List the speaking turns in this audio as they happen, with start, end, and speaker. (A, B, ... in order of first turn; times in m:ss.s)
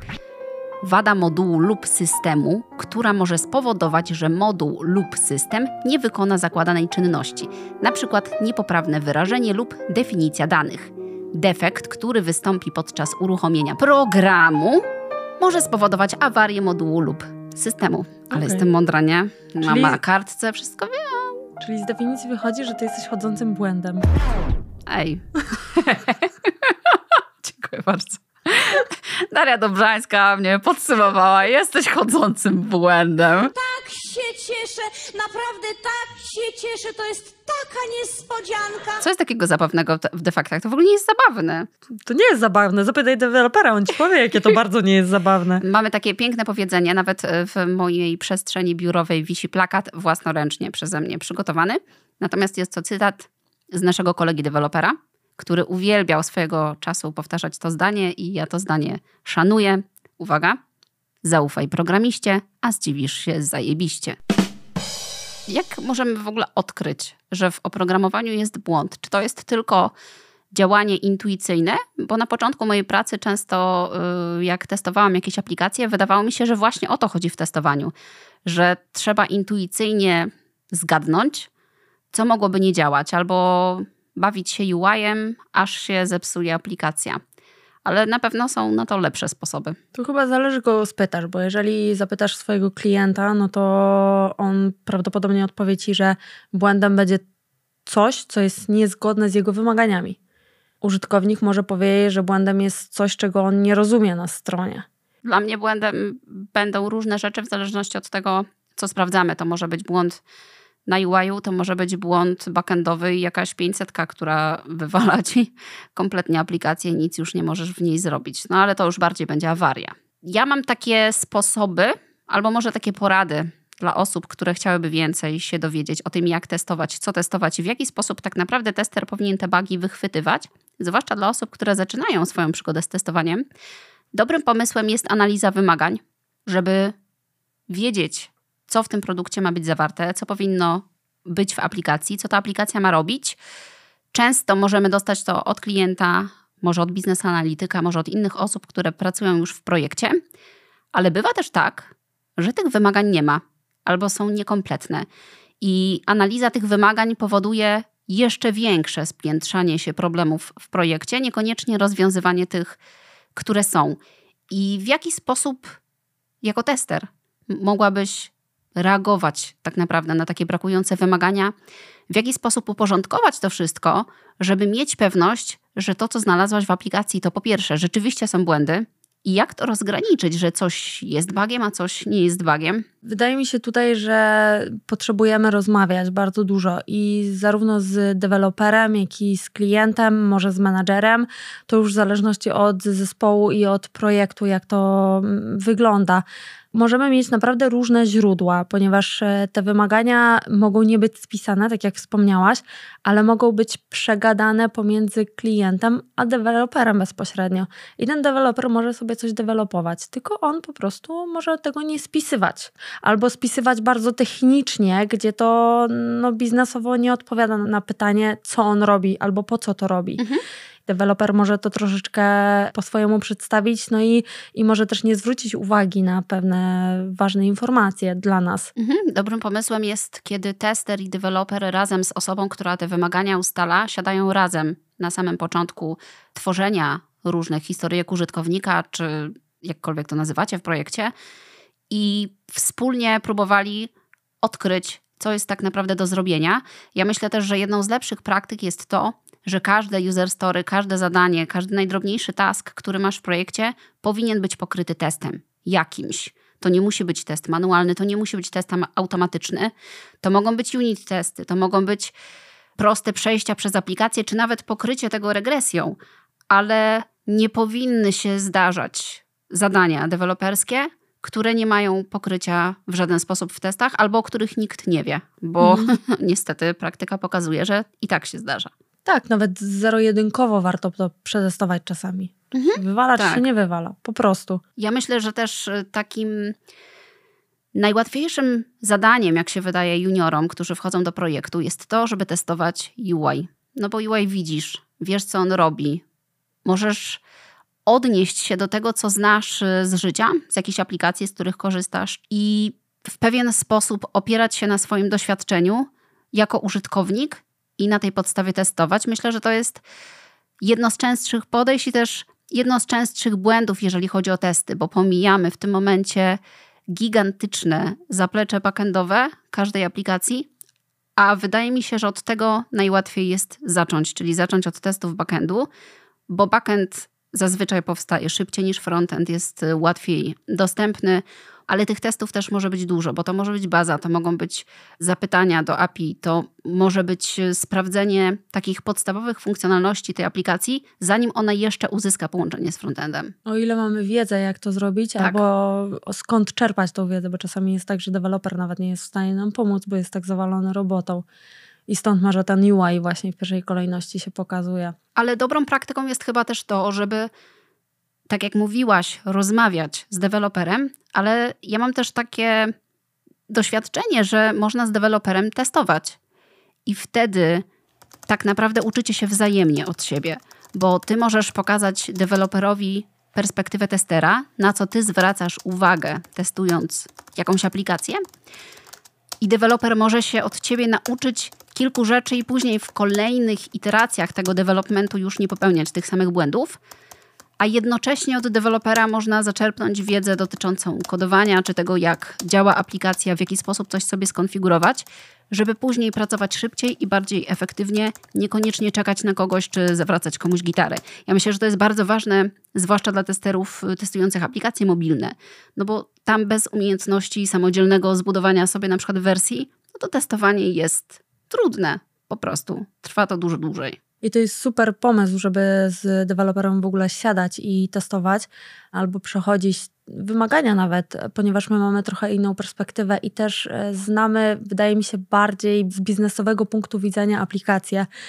0:00.8-0:14.8 A
0:15.4-0:21.4 A
0:18.3-0:18.6 B
0:19.6-0:20.0 B
0:21.6-0:24.0 B
0:24.9-0:33.5 A
0:33.5-0:39.0 C
0:39.0-0:41.7 A
0:42.0-0:45.6 B
0:45.6-1:00.6 A
1:01.2-1:04.2 A
1:05.5-1:09.9 A
1:10.5-1:17.9 A
1:18.5-1:21.5 A
1:22.1-1:27.2 A
1:27.8-1:29.8 A
1:30.0-1:37.2 B
1:37.9-1:40.2 B
1:40.8-1:44.9 B
1:45.2-1:50.2 A
1:50.9-2:13.4 A
2:14.1-2:17.0 A
2:17.7-2:23.4 A
2:24.1-2:30.2 A
2:30.9-2:35.1 A
2:35.6-2:42.8 A
2:43.4-2:44.0 A
2:44.5-2:45.8 A
2:46.4-2:51.5 A
2:52.1-3:02.8 A
3:03.0-3:40.2 B
3:40.2-3:40.4 A
3:40.9-3:48.7 B
3:48.8-4:01.1 A
4:01.9-4:03.9 A
4:04.4-4:22.1 A
4:22.8-4:26.0 A
4:26.5-4:38.7 A
4:35.6-4:35.9 B
4:39.0-4:44.6 B
4:42.5-4:43.5 A
4:44.8-4:46.6 A
4:47.8-4:56.0 A
4:56.6-4:57.2 A
4:57.9-5:09.8 A
5:10.6-5:16.4 A
5:16.9-5:20.5 A
5:21.2-5:25.7 A
5:26.3-5:43.3 A
5:43.5-5:51.2 B
5:51.9-5:55.0 B
5:55.2-5:57.3 A
5:58.3-6:02.7 A
6:03.5-6:06.2 A
6:06.9-6:07.6 A
6:08.3-6:18.2 A
6:19.4-6:26.8 A
6:27.6-6:54.0 A
6:54.2-7:08.1 B